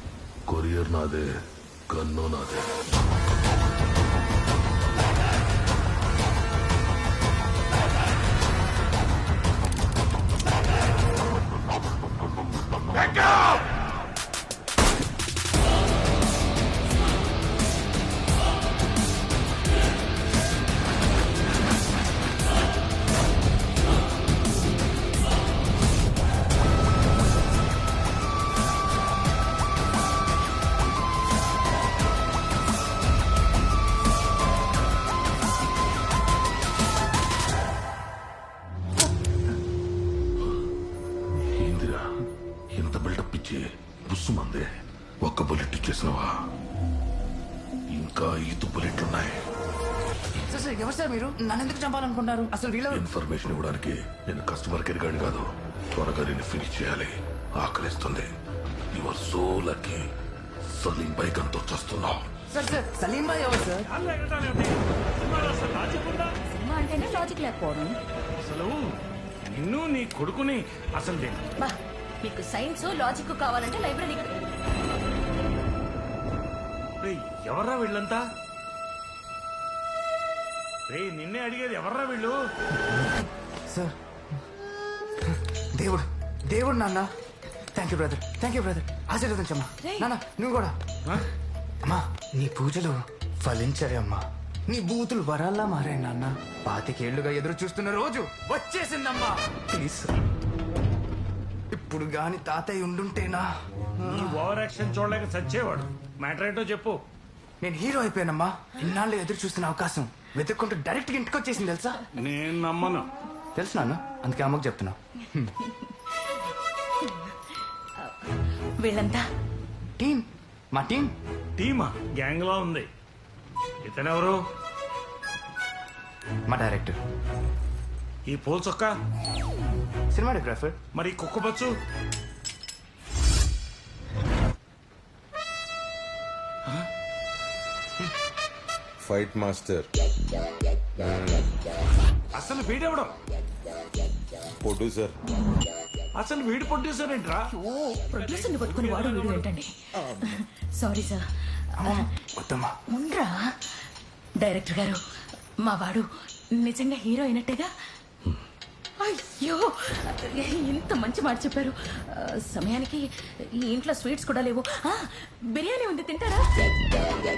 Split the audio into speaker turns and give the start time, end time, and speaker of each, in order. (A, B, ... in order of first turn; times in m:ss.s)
0:00.5-0:02.8 A
0:41.5-0:42.0 A
0:42.7-0:44.7 A
0:45.2-0:46.3 A
0:47.9-0:49.4 A
0:50.5-0:53.0 B
0:52.9-0:58.3 A
0:58.9-1:00.0 A
1:00.7-1:02.3 A
1:02.5-1:03.9 B
1:03.9-1:06.3 C
1:06.5-1:08.0 D
1:08.4-1:08.9 C
1:09.5-1:11.4 C
1:11.6-1:14.4 D
1:17.0-1:18.2 C
1:20.9-1:22.4 C
1:23.7-1:24.0 B
1:25.7-1:27.1 B
1:27.7-1:30.8 B
1:29.8-1:30.1 D
1:31.8-1:40.1 B
1:41.7-1:43.5 B
1:44.0-1:47.0 C
1:47.6-1:52.0 B
1:52.2-1:53.1 C
1:53.5-1:55.6 B
1:57.0-1:57.3 D
1:58.0-1:59.2 D
2:00.0-2:01.1 B
2:01.6-2:02.9 C
2:03.8-2:04.4 C
2:06.5-2:07.0 B
2:08.3-2:09.0 C
2:10.1-2:10.8 B
2:10.9-2:11.7 C
2:19.0-2:19.9 E
2:21.0-2:21.5 E
2:22.4-2:23.1 C
2:24.6-2:25.1 E
2:26.2-2:27.4 C
2:27.5-2:31.2 D
2:28.1-2:29.5 C
2:31.8-2:32.1 D
2:31.8-2:32.7 B
2:32.9-2:33.8 D
2:34.4-2:35.0 D
2:35.6-2:36.1 D
2:36.6-2:37.7 D
2:39.0-2:43.1 D
2:43.6-2:46.8 D